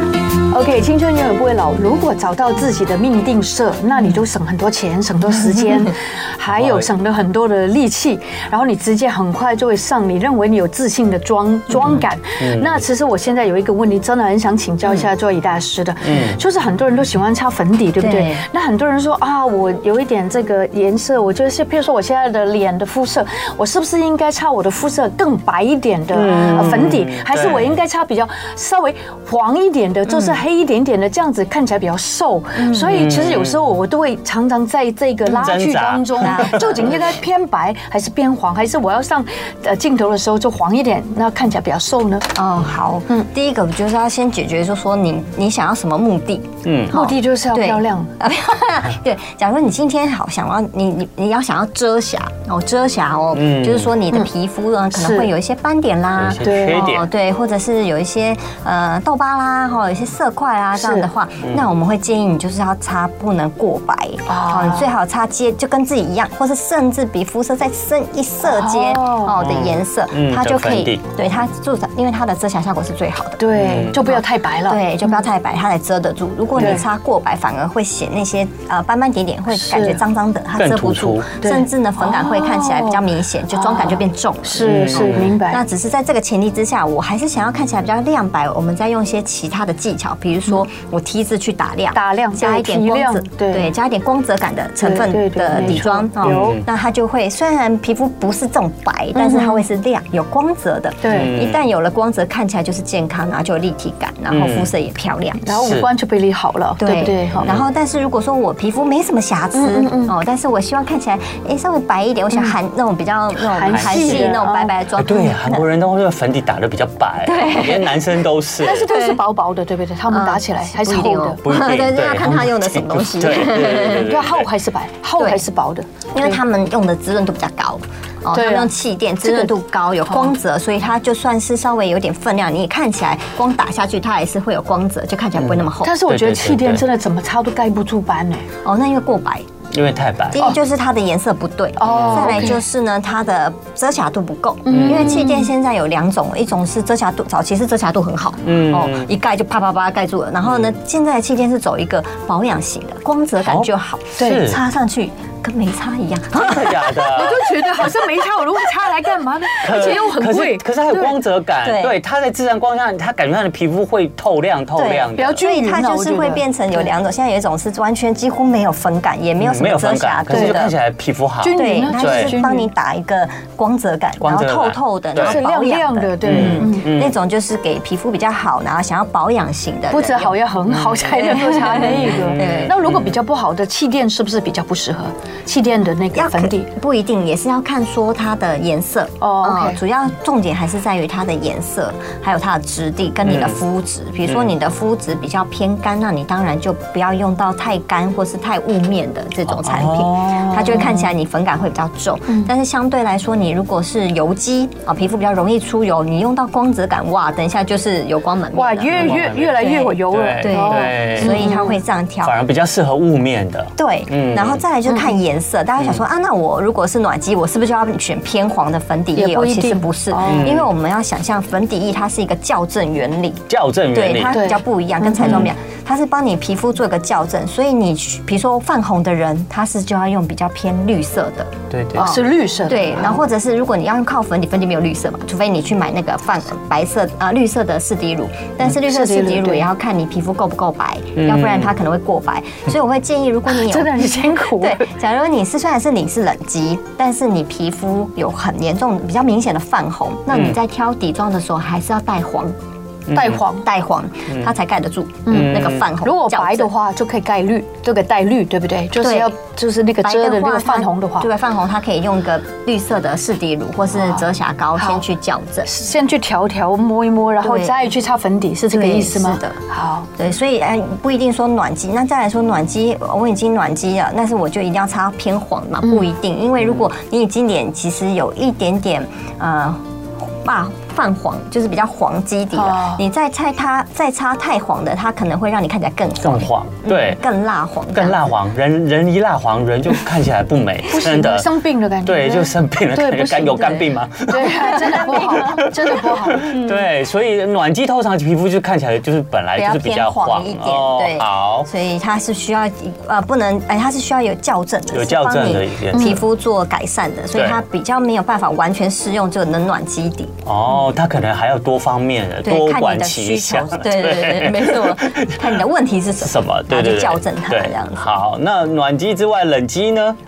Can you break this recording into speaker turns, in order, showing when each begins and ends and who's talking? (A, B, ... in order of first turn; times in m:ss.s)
0:00.5-0:42.3 A
0:06.5-0:06.9 B
0:11.7-0:12.8 B
0:16.0-0:16.4 B
0:18.0-0:18.4 C
0:26.1-0:27.8 B
0:26.3-0:26.9 C
0:30.1-0:30.4 C
0:32.6-0:33.0 C
0:32.9-0:33.6 B
0:35.3-0:36.9 B
0:36.2-0:37.0 C
0:42.3-1:45.5 C
0:46.6-0:47.0 B
0:46.9-0:48.1 A
0:53.3-0:53.9 B
0:54.9-0:55.3 A
0:56.2-0:57.1 B
0:56.4-0:56.9 A
1:00.8-1:01.1 A
1:04.3-1:04.9 A
1:08.4-1:09.4 A
1:09.4-1:11.0 B
1:13.4-1:14.8 A
1:13.6-1:14.0 B
1:16.6-1:16.8 A
1:19.5-1:20.0 A
1:20.6-1:21.3 B
1:21.4-1:25.6 A
1:24.6-1:25.3 B
1:31.9-1:33.7 A
1:34.8-1:36.6 A
1:35.5-1:36.6 B
1:39.1-1:39.6 A
1:41.0-1:41.3 A
1:41.1-1:41.6 B
1:44.3-1:44.7 B
1:45.4-1:47.5 A
1:45.6-1:45.9 B
1:46.8-1:55.6 C
1:47.4-1:47.6 B
1:49.5-1:50.1 A
1:53.5-1:54.7 A
1:53.7-1:54.4 B
1:55.0-1:58.9 B
1:57.2-1:58.0 C
1:58.6-2:01.4 A
1:58.9-1:59.2 C
2:00.1-2:04.1 C
2:01.4-2:04.5 B
2:03.8-2:06.4 A
2:06.1-2:15.9 C
2:08.3-2:08.7 A
2:09.2-2:09.5 A
2:15.4-2:16.8 B
2:15.8-2:18.5 A
2:18.6-2:19.4 C
2:19.7-2:20.5 B
2:20.3-2:37.1 C
2:21.8-2:22.6 A
2:21.8-2:22.5 B
2:24.6-2:25.5 A
2:24.7-2:25.2 B
2:28.4-2:29.1 B
2:30.4-2:30.7 B
2:33.4-2:34.6 B
2:34.2-2:34.4 A
2:36.3-2:37.5 B
2:37.1-2:41.1 A
2:39.6-2:45.4 B
2:41.6-2:42.0 C
2:44.8-2:50.7 C
2:45.2-2:46.9 A
2:49.4-2:52.4 B
2:50.3-2:50.6 A
2:51.4-2:52.7 A
2:51.5-3:00.4 C
2:54.2-2:55.4 B
2:55.2-2:56.8 A
2:56.2-2:57.2 B
2:59.9-3:06.7 A
3:00.7-3:01.1 B
3:01.0-3:02.7 C
3:02.0-3:03.2 B
3:06.1-3:32.4 C
3:09.2-3:09.8 A
3:13.2-3:13.6 B
3:19.5-3:20.5 B
3:20.5-3:21.0 A
3:28.5-3:31.8 A
3:28.9-3:31.6 B
3:32.2-3:34.6 B
3:33.8-4:12.6 C
3:34.9-3:35.2 A
3:39.1-3:40.5 A
3:40.3-3:40.7 B
3:43.5-3:44.4 B
3:44.3-3:45.5 A
3:45.2-3:45.5 B
3:51.7-3:52.2 B
3:52.0-3:53.2 A
3:58.7-3:59.6 A
4:01.2-4:01.7 B
4:03.5-4:04.9 A
4:13.1-4:13.4 B
4:13.1-4:13.6 A
4:13.6-4:16.7 C
4:15.3-4:21.3 A
4:15.3-4:15.8 B
4:19.0-4:19.3 C
4:20.0-4:25.7 C
4:23.9-4:24.2 A
4:24.8-4:25.0 A
4:25.6-4:30.1 A
4:27.4-4:27.8 C
4:28.7-4:29.6 C
4:30.1-4:48.2 C
4:35.8-4:36.1 A
4:42.5-4:43.0 A
4:46.2-4:47.2 B
4:47.9-4:51.5 B
4:50.9-4:56.6 A
4:52.0-5:01.7 B
4:54.7-4:55.6 C
4:59.6-5:10.3 C
5:04.9-5:06.2 B
5:05.9-5:06.2 A
5:07.3-5:07.6 B
5:10.4-5:15.6 B
5:12.4-5:18.0 C
5:16.2-5:20.2 B